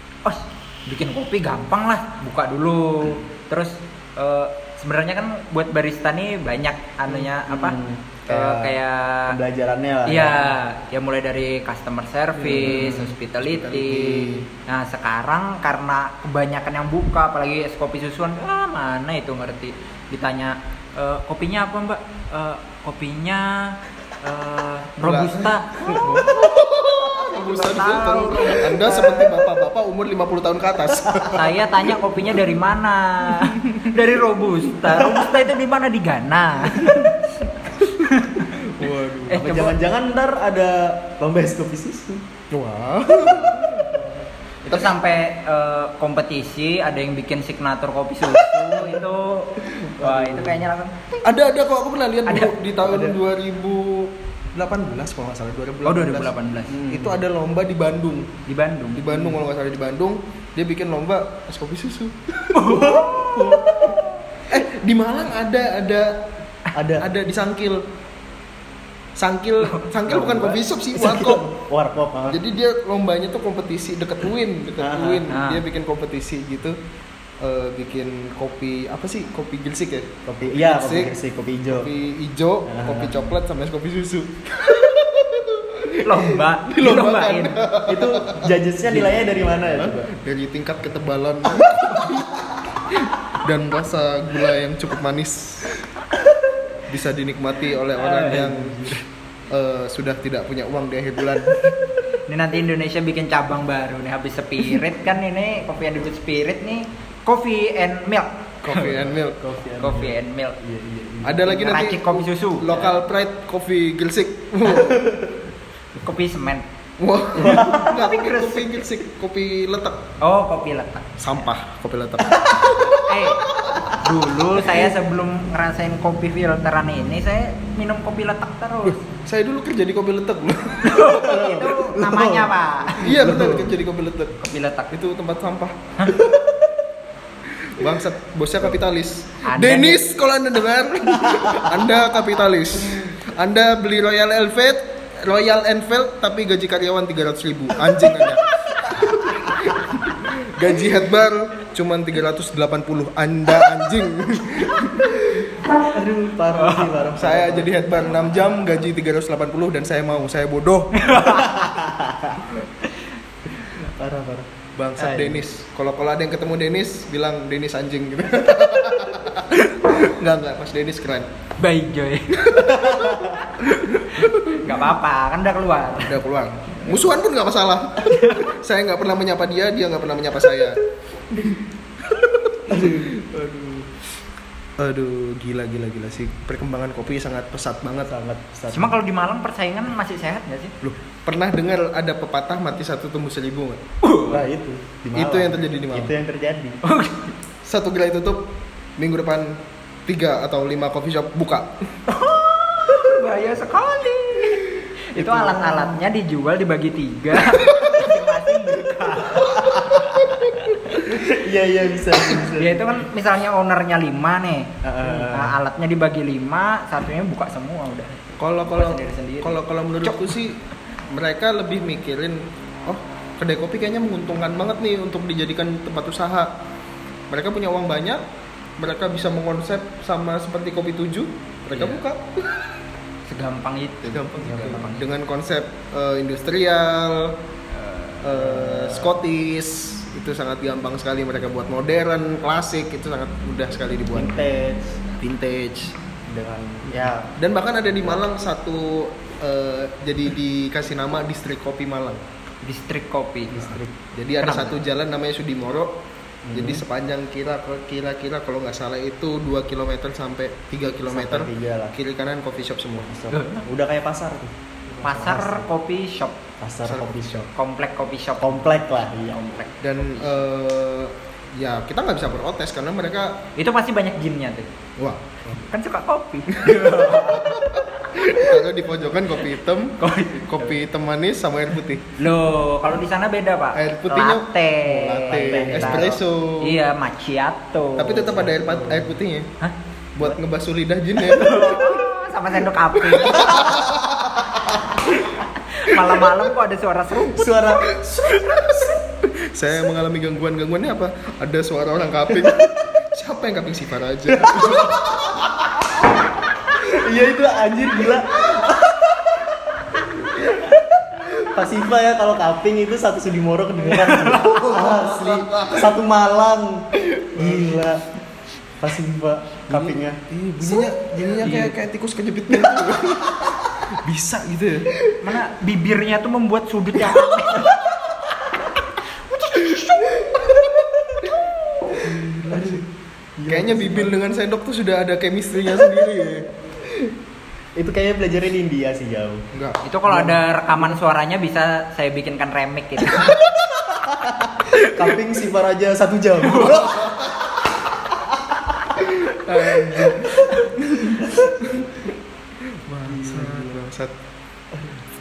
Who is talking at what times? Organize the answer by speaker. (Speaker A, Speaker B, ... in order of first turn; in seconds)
Speaker A: 0.2-9.4, 10.1-26.2, 27.3-29.3, 31.3-38.5, 39.3-39.8, 43.2-43.7, 44.7-51.2, 52.3-52.5, 55.9-56.8, 58.5-59.4, 62.5-63.7, 75.3-75.6, 86.0-87.6, 98.0-99.0, 102.3-108.9, 109.8-110.6, 111.4-113.0, 116.0-116.6, 117.4-118.8, 120.2-121.2, 122.8-129.1, 130.8-133.1, 134.4-134.9, 139.5-140.0, 156.6-157.2, 161.0-161.7, 171.6-172.3, 174.1-176.2, 178.0-178.5, 188.7-190.7, 194.0-194.5, 196.8-197.3, 202.1-211.0, 212.4-220.3, 231.7-232.0, 233.3-235.1, 237.7-238.3, 252.6-253.8, 254.4-254.8, 263.3-263.6, 265.0-266.4, 267.5-268.6, 269.2-270.4, 273.6-274.7, 275.7-277.9, 280.0-280.8, 282.2-288.5, 289.6-290.4, 291.2-293.8, 295.3-297.6, 314.0-314.7, 321.4-321.8, 325.2-327.8, 329.4-330.1, 339.8-343.4, 346.5-346.9
Speaker B: 7.2-10.6, 12.4-13.1, 14.0-14.4, 34.9-35.2, 39.4-42.2, 50.0-50.7, 52.9-53.1, 56.7-57.2, 62.7-63.7, 66.8-67.1, 70.1-72.4, 74.8-75.2, 80.3-81.9, 82.7-83.3, 87.9-90.1, 98.3-98.9, 109.4-111.5, 114.7-115.3, 117.4-117.9, 122.3-122.8, 123.7-124.0, 124.6-124.9, 131.1-133.7, 136.2-136.6, 155.9-157.9, 161.2-162.5, 163.7-165.4, 172.8-173.3, 182.7-183.1, 188.1-189.0, 194.3-196.8, 205.2-205.5, 209.4-210.2, 210.9-213.0, 214.8-215.6, 234.5-234.8, 238.4-239.2, 244.1-245.0, 246.3-247.3, 253.5-253.9, 256.5-256.8, 261.1-261.9, 263.0-265.7, 266.6-267.5, 268.4-269.4, 285.3-286.2, 288.4-289.1, 297.3-297.9, 304.3-305.5, 306.8-309.5, 310.4-318.0, 318.8-321.1, 332.1-332.9, 333.4-334.1, 337.8-339.4, 340.1-341.0, 343.9-347.3, 353.1-353.9, 354.8-355.0
Speaker C: 12.4-14.4, 25.0-31.6, 33.4-33.9, 38.5-39.5, 42.5-43.9, 44.7-45.0, 51.2-56.3, 56.9-58.3, 59.0-63.9, 64.5-66.2, 67.0-67.8, 69.2-71.5, 72.3-76.8, 77.4-81.1, 81.7-95.8, 96.9-98.9, 99.5-101.7, 108.6-109.4, 111.2-115.1, 117.0-120.0, 121.2-123.0, 129.2-131.1, 133.0-134.4, 134.9-135.8, 137.7-155.5, 157.2-161.1, 164.8-171.3, 172.3-174.8, 176.0-180.8, 182.1-183.9, 184.8-188.2, 190.8-193.8, 195.2-196.1, 197.6-201.7, 209.4-209.8, 218.4-226.5, 227.3-228.2, 228.8-232.7, 234.1-237.3, 238.2-244.4, 245.2-245.9, 247.4-252.2, 254.1-255.9, 256.5-263.1, 266.9-267.5, 269.8-273.4, 275.0-275.2, 276.5-282.1, 283.8-286.8, 288.0-289.5, 290.2-292.0, 293.0-294.8, 297.9-305.4, 314.4-315.9, 317.3-317.9, 319.7-324.9, 331.9-332.8, 333.5-336.5, 339.5-339.8, 346.9-347.2, 349.0-351.9, 352.9-354.1